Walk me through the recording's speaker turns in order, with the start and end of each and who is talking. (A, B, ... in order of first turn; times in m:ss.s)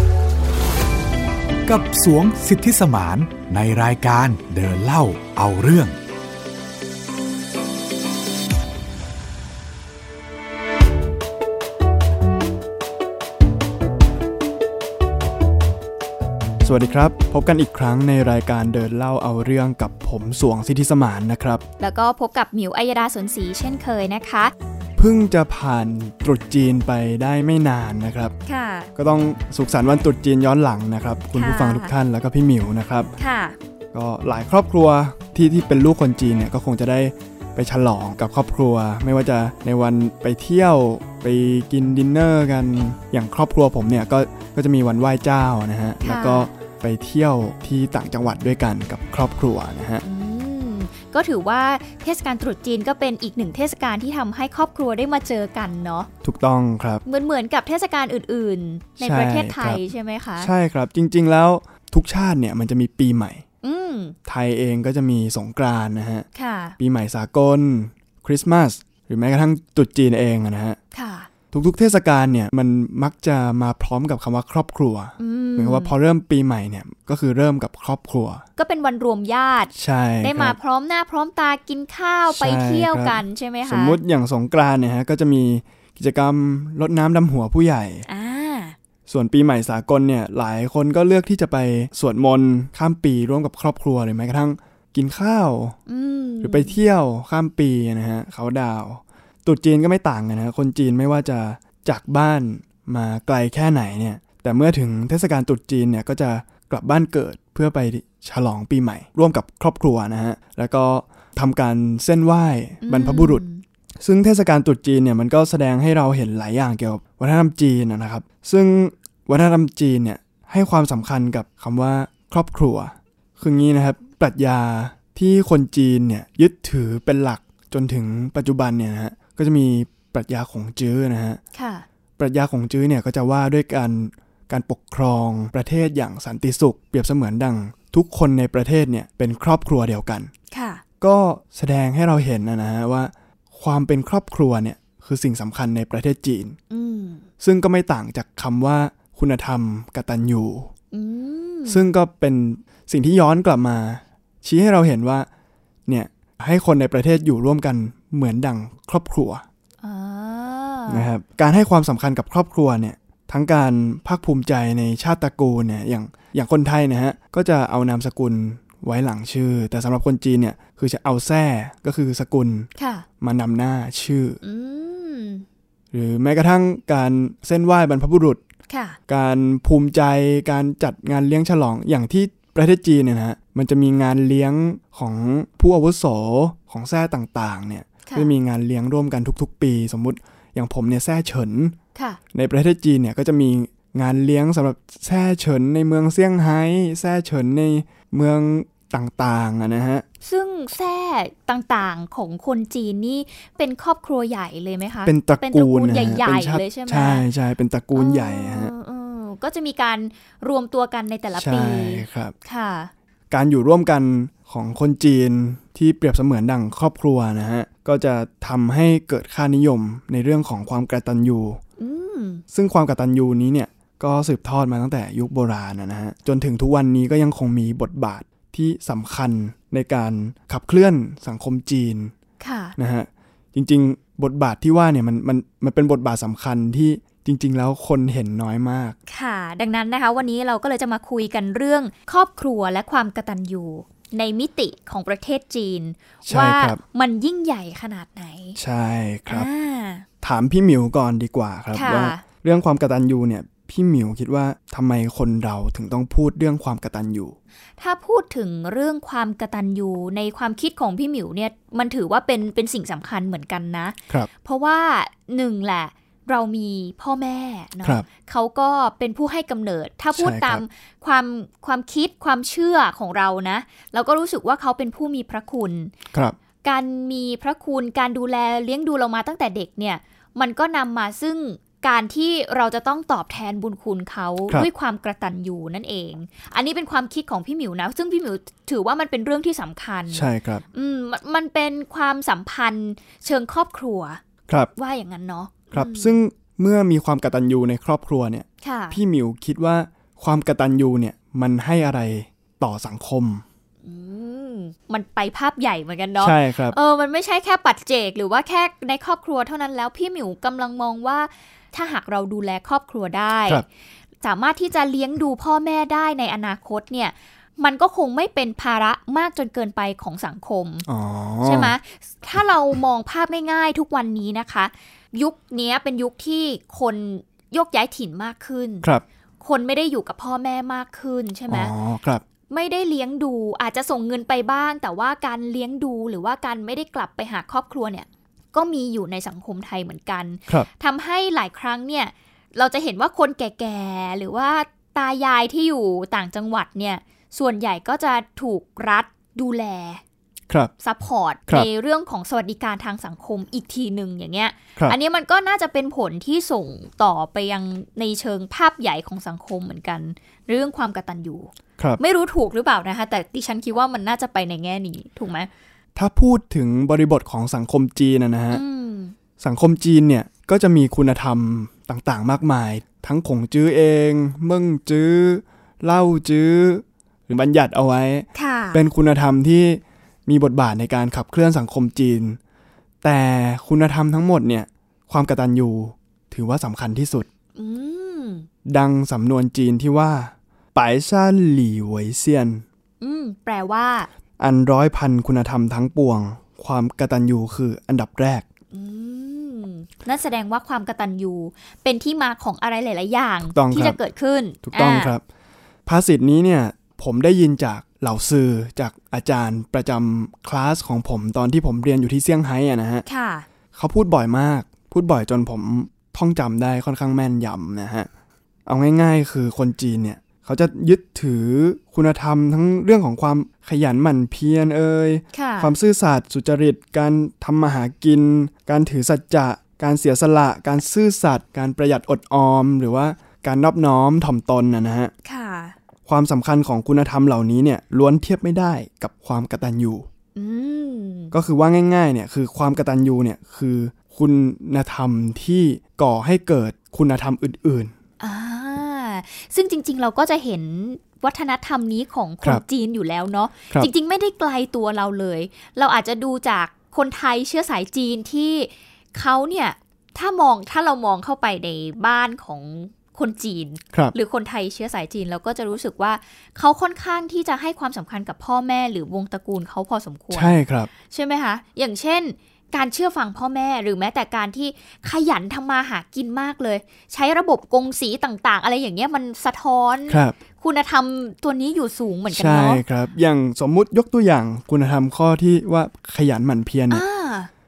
0:01.7-0:06.0 A
0:16.6-0:21.6 B
0:21.8-0:24.5 C
0:25.0-0:28.4 B
0:28.5-0:28.9 C
0:29.0-0:33.1 B
0:31.3-0:31.9 C
0:33.2-0:33.6 C
0:33.9-0:50.0 B
0:46.0-0:46.5 C
0:50.0-0:56.1 C
0:56.2-0:57.0 B
0:57.1-1:00.5 C
0:59.0-0:59.8 B
1:00.4-1:03.4 B
1:03.6-1:04.2 C
1:04.3-1:06.3 B
1:06.3-1:06.8 C
1:06.8-1:10.8 B
1:10.9-1:11.3 C
1:11.5-1:18.4 B
1:15.2-1:15.9 C
1:18.6-1:24.0 C
1:19.8-1:20.6 B
1:22.3-1:28.0 B
1:28.1-1:28.8 C
1:29.1-1:35.8 B
1:35.9-1:36.8 C
1:36.4-1:53.4 B
1:52.8-1:53.6 C
1:54.0-2:11.4 B
2:11.5-2:11.9 C
2:12.2-2:20.3 B
2:20.5-2:20.8 C
2:21.0-2:26.6 B
2:26.7-2:27.2 C
2:27.4-2:30.7 B
2:30.9-2:31.8 C
2:31.7-2:35.3 B
2:35.9-2:39.4 B
2:39.8-2:41.1 C
2:40.9-2:54.4 B
2:52.8-2:53.1 C
2:54.4-2:55.5 C
2:55.9-2:58.4 B
2:58.7-2:59.0 C
2:59.1-3:11.8 B
3:08.1-3:08.3 C
3:12.0-3:12.2 C
3:12.3-3:20.0 B
3:20.2-3:27.3 C
3:25.0-3:28.7 B
3:28.0-3:32.9 C
3:31.4-3:32.3 B
3:33.3-3:41.6 B
3:41.8-3:42.4 C
3:42.5-3:52.1 B
3:52.4-3:52.8 C
3:52.8-3:59.0 B
3:59.1-4:08.6 C
4:06.3-4:06.8 B
4:08.6-4:09.5 B
4:09.3-4:10.1 C
4:10.2-4:17.4 B
4:11.7-4:12.2 C
4:17.8-4:35.9 C
4:30.1-4:30.6 B
4:36.6-4:54.2 C
4:50.1-4:50.6 B
4:54.8-4:56.2 C
4:55.7-5:03.4 B
4:58.6-4:59.0 C
5:03.8-5:13.6 C
5:06.2-5:06.8 B
5:14.2-5:20.9 C
5:20.9-5:21.8 B
5:21.4-5:28.9 C
5:29.4-5:31.7 C
5:31.5-5:32.2 B
5:32.5-5:50.0 C
5:50.8-6:05.5 C
6:06.0-6:08.6 B
6:08.5-6:09.2 C
6:09.4-6:22.4 B
6:18.4-6:18.8 C
6:23.0-6:27.3 B
6:27.6-6:28.5 C
6:28.7-6:32.6 B
6:33.0-6:34.1 C
6:34.4-6:38.4 B
6:38.7-6:45.2 C
6:43.5-6:44.0 B
6:44.6-6:45.2 B
6:45.9-6:53.1 B
6:53.1-6:53.5 C
6:53.7-6:58.1 B
6:58.7-7:15.1 B
7:05.3-7:05.7 C
7:15.2-7:15.8 C
7:16.1-7:20.1 B
7:20.4-7:21.3 C
7:21.3-7:27.9 B
7:28.2-8:02.8 C
7:50.3-7:50.9 B
8:00.1-8:00.4 B
8:02.3-8:07.0 B
8:06.9-8:07.5 C